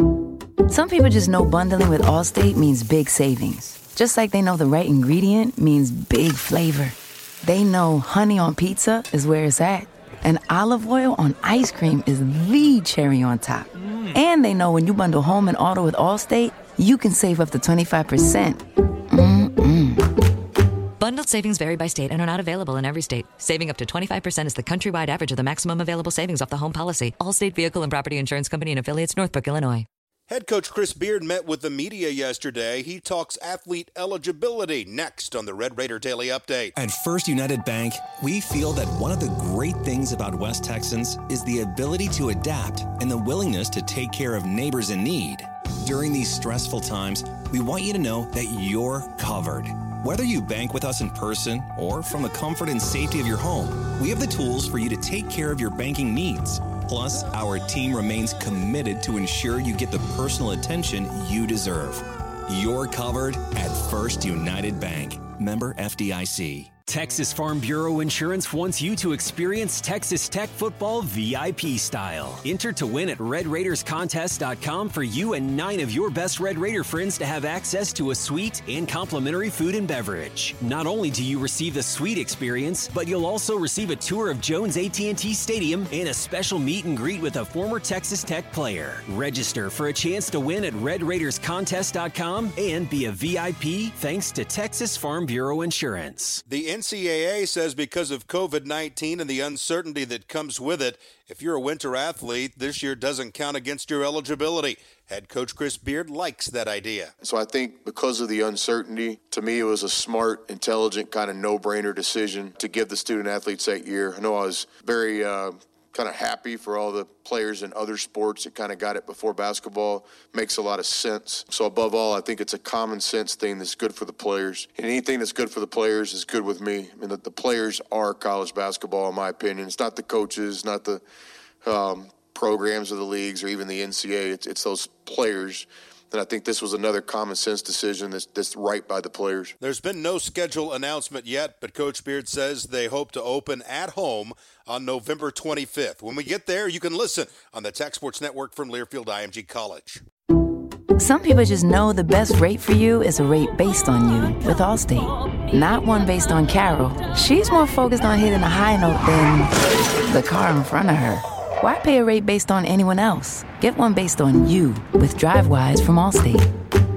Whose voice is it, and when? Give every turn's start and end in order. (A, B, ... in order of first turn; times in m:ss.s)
0:00.7-0:20.0 A
0:21.0-0:29.9 B
0:30.3-0:36.7 C
0:36.8-1:06.7 D
1:06.9-1:36.4 E
1:36.5-1:47.1 C
1:47.2-2:11.0 F
2:11.6-2:19.6 F
2:19.6-2:30.0 C
2:31.0-2:39.5 A
2:40.1-2:46.4 A